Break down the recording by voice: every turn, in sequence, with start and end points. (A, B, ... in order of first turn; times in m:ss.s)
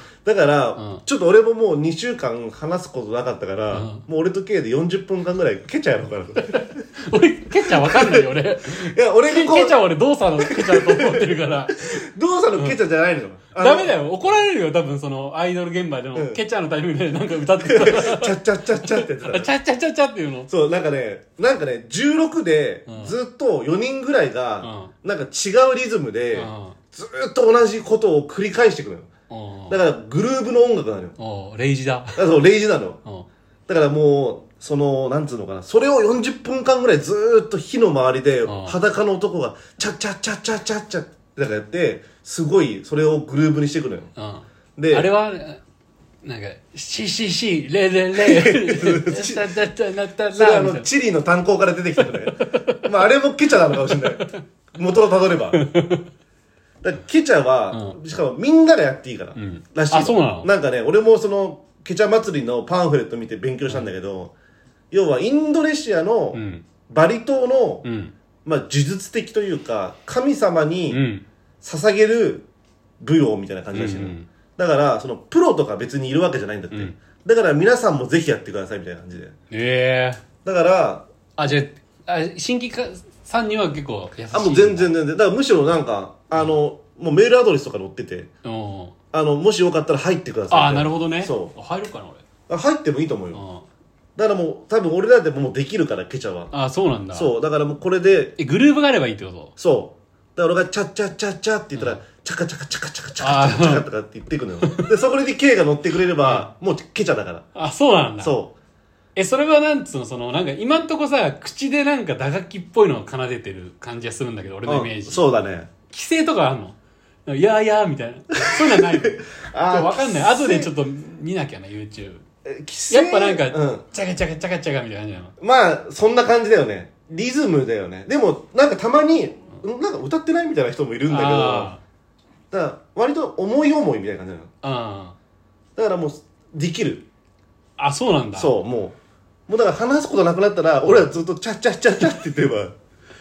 0:00.2-0:06.8 A
0:00.8-0:01.0 B
0:03.7-0:04.0 B
0:06.4-0:12.0 B
0:07.7-0:09.8 A
0:10.4-0:13.9 A
0:13.6-0:20.5 B
0:16.1-0:16.4 A
0:17.6-0:19.5 A
0:20.5-0:29.1 A
0:22.9-0:23.1 B
0:24.6-0:24.9 B
0:26.3-0:26.8 B
0:29.3-0:29.8 B
0:29.7-0:31.2 A
0:31.2-0:32.2 B
0:32.1-0:33.0 A
0:33.7-0:44.1 A
0:38.4-0:38.8 B
0:44.2-0:45.6 B
0:44.8-0:45.1 A
0:46.2-0:50.9 B
0:48.1-0:49.6 A
0:50.3-0:55.6 A
0:52.4-0:52.8 B
0:53.8-0:54.4 B
0:55.5-0:56.0 B
0:56.8-1:04.3 A
0:57.7-0:58.0 B
0:59.4-1:00.5 B
1:04.9-1:07.8 A
1:06.3-1:06.6 B
1:07.8-1:08.1 B
1:08.4-1:11.0 A
1:10.9-1:11.2 B
1:11.6-1:12.5 A
1:13.0-1:19.3 A
1:13.7-1:14.3 B
1:19.5-1:20.2 B
1:20.4-1:21.0 A
1:21.4-1:24.9 B
1:24.3-1:28.3 A
1:28.4-1:28.9 B
1:29.1-1:31.5 A
1:30.5-1:32.2 B
1:32.5-1:33.4 A
1:33.3-1:33.6 B
1:34.2-1:36.5 A
1:36.5-1:37.3 B
1:37.1-1:38.4 A
1:38.4-1:39.5 B
1:39.6-1:47.4 A
1:41.8-1:42.0 B
1:43.2-1:43.8 B
1:44.6-1:44.9 B
1:46.2-1:46.5 B
1:47.5-1:48.4 B
1:48.2-1:48.5 A
1:49.1-1:55.3 B
1:54.6-1:55.7 A
1:55.9-2:02.2 B
1:58.4-2:00.7 A
2:02.4-2:03.8 A
2:02.9-2:05.3 B
2:05.4-2:11.7 A
2:11.1-2:11.8 B
2:12.5-2:14.5 A
2:14.6-2:15.2 B
2:15.8-2:17.1 A
2:17.8-2:18.6 B
2:18.4-2:19.0 A
2:19.5-2:22.7 A